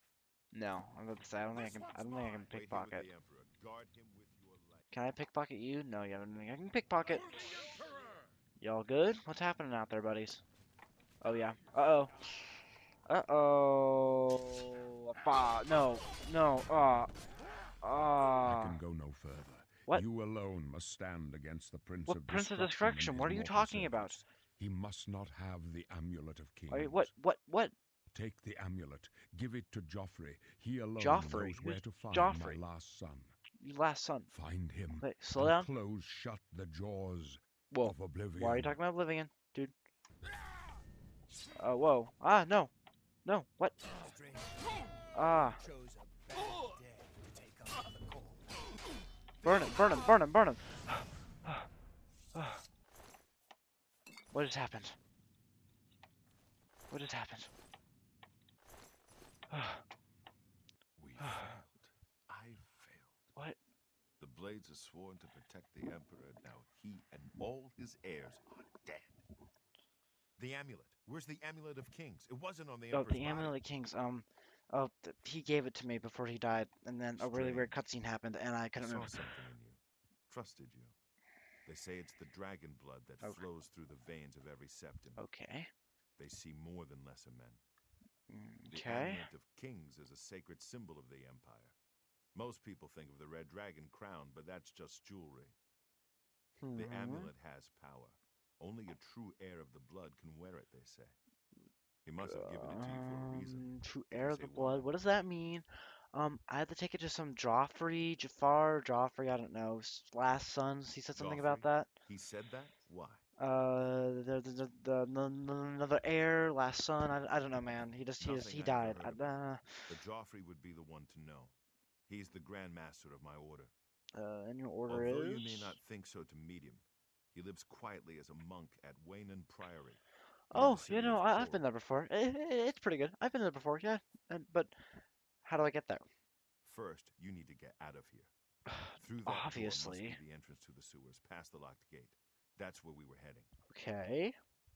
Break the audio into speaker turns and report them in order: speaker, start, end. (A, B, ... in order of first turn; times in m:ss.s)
0:00.5-0:03.1 A
0:01.5-0:02.5 B
0:02.5-0:04.9 C
0:04.9-0:07.7 A
0:07.1-0:08.3 B
0:08.6-0:10.4 A
0:11.2-0:17.1 A
0:17.8-0:18.8 A
0:18.4-0:27.1 D
0:22.1-0:24.2 A
0:26.7-0:27.7 A
0:28.1-0:33.3 D
0:31.0-0:32.6 A
0:33.6-0:34.3 A
0:34.3-0:38.8 D
0:35.0-0:35.7 A
0:37.7-0:39.7 A
0:41.6-0:42.7 A
0:43.2-0:44.0 A
0:44.3-0:45.1 B
0:45.1-0:45.6 A
0:45.7-0:47.0 B
0:49.4-0:51.7 A
0:52.3-0:52.6 A
0:54.3-0:55.0 A
0:56.9-0:57.5 A
0:59.5-0:59.8 A
1:01.0-1:03.3 C
1:01.2-1:01.5 A
1:04.2-1:09.2 C
1:10.4-1:13.6 C
1:12.9-1:19.3 A
1:17.2-1:17.7 C
1:18.8-1:20.9 C
1:21.6-1:25.2 C
1:25.2-1:25.7 A
1:26.2-1:27.6 C
1:28.3-1:29.3 A
1:28.7-1:31.8 C
1:32.3-1:35.5 C
1:36.6-1:37.3 A
1:36.8-1:41.2 C
1:42.0-1:44.9 C
1:42.2-1:51.9 A
1:51.2-1:53.2 C
1:53.4-1:59.9 A
1:58.2-2:01.5 C
2:02.1-2:03.7 C
2:04.1-2:05.8 A
2:04.9-2:10.0 C
2:10.5-2:14.7 A
2:10.5-2:11.6 C
2:15.4-2:16.0 A
2:16.6-2:18.3 C
2:18.7-2:20.2 A
2:19.0-2:23.5 C
2:23.7-2:24.4 A